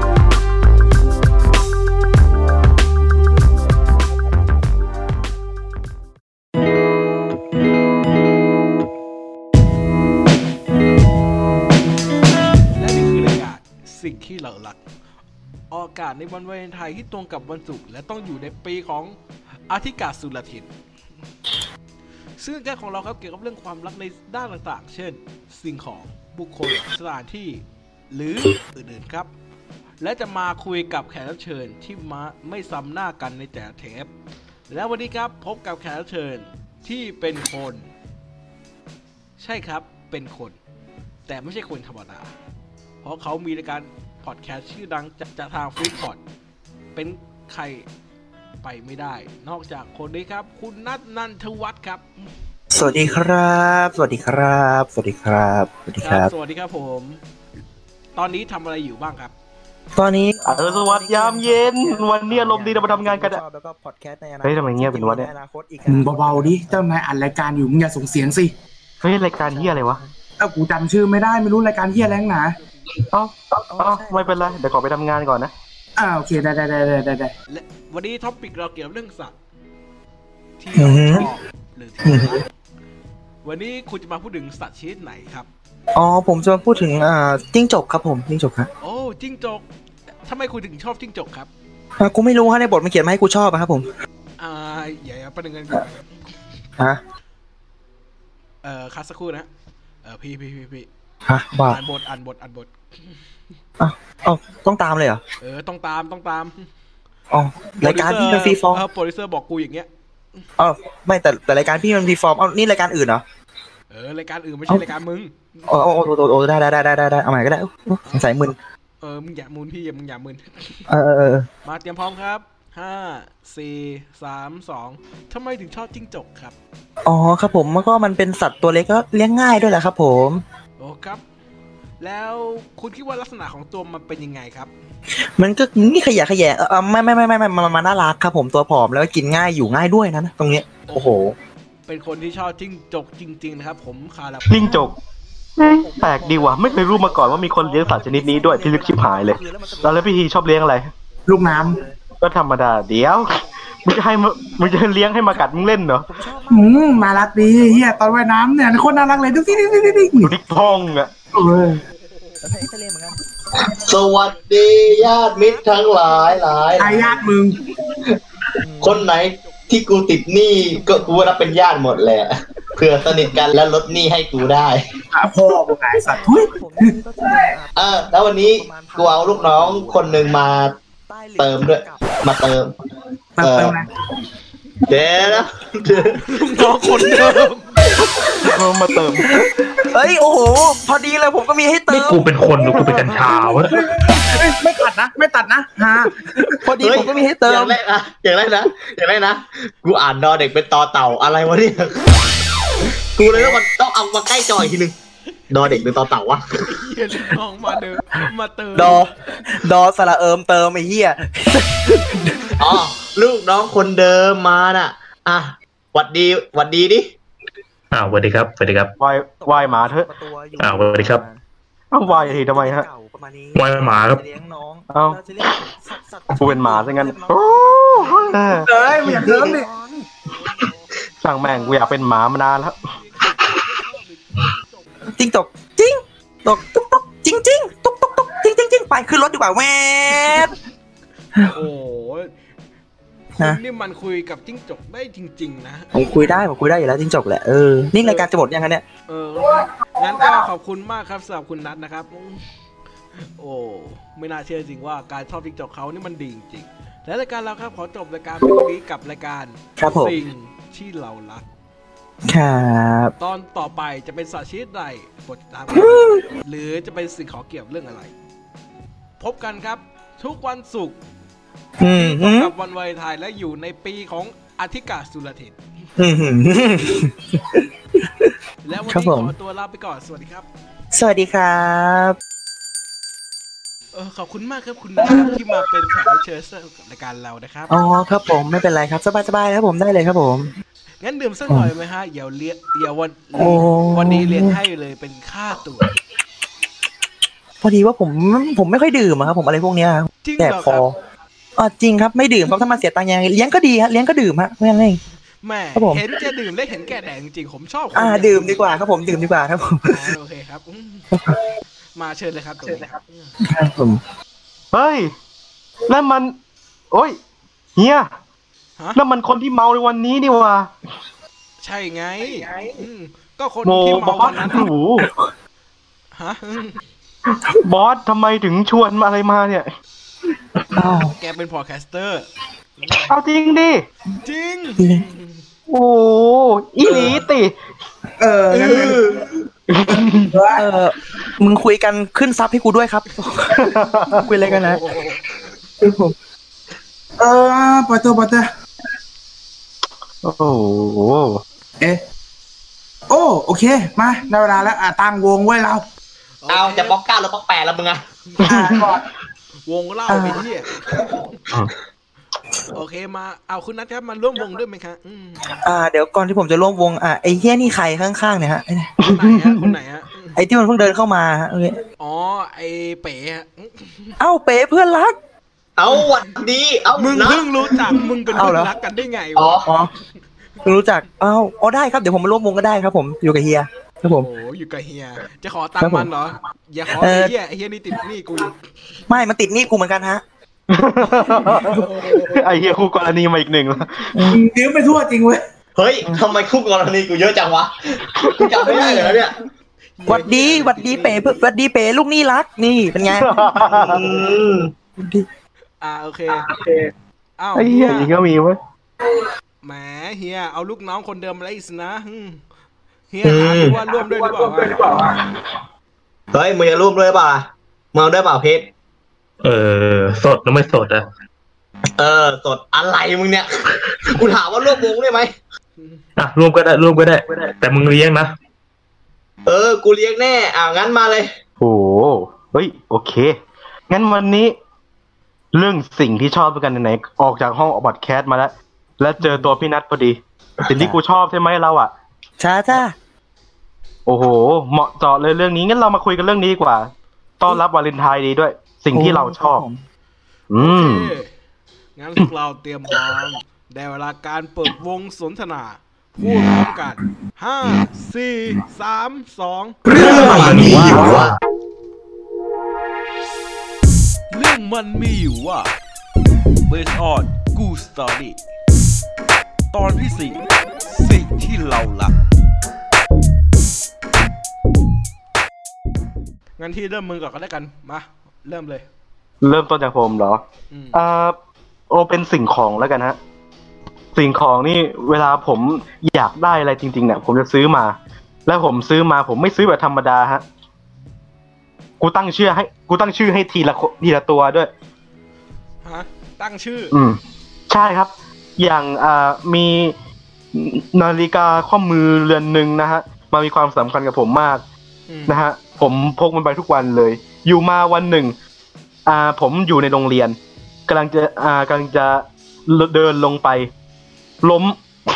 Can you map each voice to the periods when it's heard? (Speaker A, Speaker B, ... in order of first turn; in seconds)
Speaker A: 12.7-14.8, 15.7-19.2, 19.7-20.7, 22.4-29.3, 30.0-34.1, 34.7-37.9, 39.4-40.6, 41.3-42.3, 43.0-46.2, 46.9-47.9, 48.6-52.1, 56.0-57.2, 58.1-59.3, 72.5-72.9, 77.5-79.3, 80.6-82.5, 83.4-85.5, 88.8-89.6, 90.2-91.5, 94.4-96.2, 98.6-99.5, 100.0-100.9, 101.7-103.2, 105.4-106.6, 107.8-110.5, 113.9-115.6, 118.0-118.3, 119.0-120.9, 121.6-126.5, 130.8-131.2, 132.0-134.7, 140.9-141.2, 141.9-144.8, 152.9-155.4, 160.5-162.6, 163.9-167.3, 168.9-170.1, 170.8-171.8, 186.2-187.7, 205.5-205.9, 206.5-209.1, 230.2-235.1, 240.1-240.5, 241.4-242.3, 243.3-246.4, 248.0-248.3, 249.1-252.4, 253.1-261.5, 263.2-268.1, 269.2-271.0, 271.9-275.6, 278.6-280.5, 283.9-287.8, 291.0-295.9, 300.2-300.9, 305.4-308.7, 309.9-311.1, 311.9-313.3, 321.6-324.7, 326.1-326.8, 330.9-333.1, 334.2-335.4, 338.5-339.0, 344.2-345.3, 356.4-356.9, 359.6-361.4, 362.7-365.6, 369.0-370.4, 372.0-374.2, 375.9-376.4, 376.9-379.7, 384.1-388.6, 391.1-392.7, 398.7-399.1, 400.0-401.3, 405.8-406.5, 407.4-408.1, 409.6-412.4, 413.1-414.9, 425.8-426.0, 450.6-451.3, 451.9-460.9, 464.3-465.7, 466.7-468.4, 469.7-472.1, 476.6-478.9, 480.7-481.0, 495.8-496.9, 505.1-505.4
Speaker B: 52.7-56.3, 59.9-66.8, 69.4-70.1, 73.7-74.4, 80.8-81.3, 82.0-82.4, 85.9-88.7, 92.0-93.9, 101.2-101.8, 103.8-105.2, 107.3-108.8, 110.6-113.2, 115.7-118.6, 120.9-121.5, 127.0-130.4, 135.3-141.3, 145.7-150.1, 151.4-151.9, 156.0-160.4, 162.4-163.2, 168.6-169.1, 175.9-180.5, 181.1-182.2, 189.2-192.3, 196.6-197.8, 203.2-203.6, 208.7-212.5, 219.4-221.4, 222.0-230.0, 235.1-240.5, 241.3-241.6, 245.9-248.8, 259.8-260.1, 262.2-263.1, 265.7-266.3, 271.8-272.5, 276.0-278.3, 278.9-279.3, 280.9-282.2, 285.0-285.4, 287.7-290.5, 293.4-294.6, 297.6-300.9, 301.6-305.0, 305.7-306.1, 307.9-310.1, 311.1-311.4, 313.4-314.0, 325.0-325.3, 330.7-331.1, 334.8-335.1, 340.5-344.9, 345.9-346.1, 360.1-360.4, 365.5-369.1, 370.4-371.8, 374.2-375.1, 378.3-378.7, 379.6-379.9, 380.6-384.3, 385.8-386.1, 386.9-387.3, 389.1-390.2, 394.1-394.4, 400.1-404.0, 405.0-405.3, 439.2-439.5, 442.4-442.9, 448.9-449.8
Speaker C: 60.5-63.4, 64.4-65.3, 69.0-70.0, 73.1-75.5, 144.5-144.9, 145.6-150.9, 152.2-156.1, 160.2-161.1, 188.4-189.3, 219.0-220.1, 221.9-222.9, 224.9-225.2, 226.4-228.7, 231.2-232.9, 314.7-315.1, 315.9-316.3, 316.9-317.2, 317.8-318.1, 318.9-320.7, 323.6-325.1, 327.3-329.7, 333.1-333.8, 335.7-337.6, 339.7-340.3, 343.5-344.2, 350.2-351.4, 390.7-394.1, 398.1-398.4, 403.2-404.0, 407.5-408.6, 431.6-433.3, 433.9-434.5, 435.5-441.9, 444.1-449.6, 450.5-451.1, 479.4-480.4, 480.9-481.4, 481.9-483.2, 484.1-490.4, 492.0-494.7, 496.9-497.2, 497.7-499.9, 500.5-504.6, 505.3-508.4, 509.1-510.4, 510.9-513.7, 514.4-514.8
Speaker D: 65.9-68.5, 70.4-72.6, 76.0-77.3, 151.3-151.8, 156.5-160.3, 161.3-161.8, 166.8-167.6, 175.1-177.5, 183.4-183.9, 192.6-196.7, 228.6-229.7, 322.4-322.7, 336.9-337.2, 338.2-340.6, 347.2-348.5, 353.1-355.8, 358.4-359.0, 394.3-395.4, 414.2-415.0, 460.2-460.4
Speaker E: 163.5-167.1, 167.8-168.2, 168.8-174.8, 177.8-180.7, 181.4-182.8, 183.4-183.8, 184.9-186.2, 196.8-202.2, 203.2-204.9, 205.5-206.7, 212.6-217.1, 338.6-339.2, 356.5-358.0, 375.8-377.5, 379.4-379.7, 395.8-397.7, 398.3-399.3, 403.8-404.7, 413.2-413.8, 416.3-418.7, 422.0-425.3, 429.4-431.3, 459.9-461.3
Speaker F: 191.9-193.8, 217.9-218.9, 220.6-221.2, 223.5-224.2, 419.4-421.1, 426.2-428.3, 460.0-461.4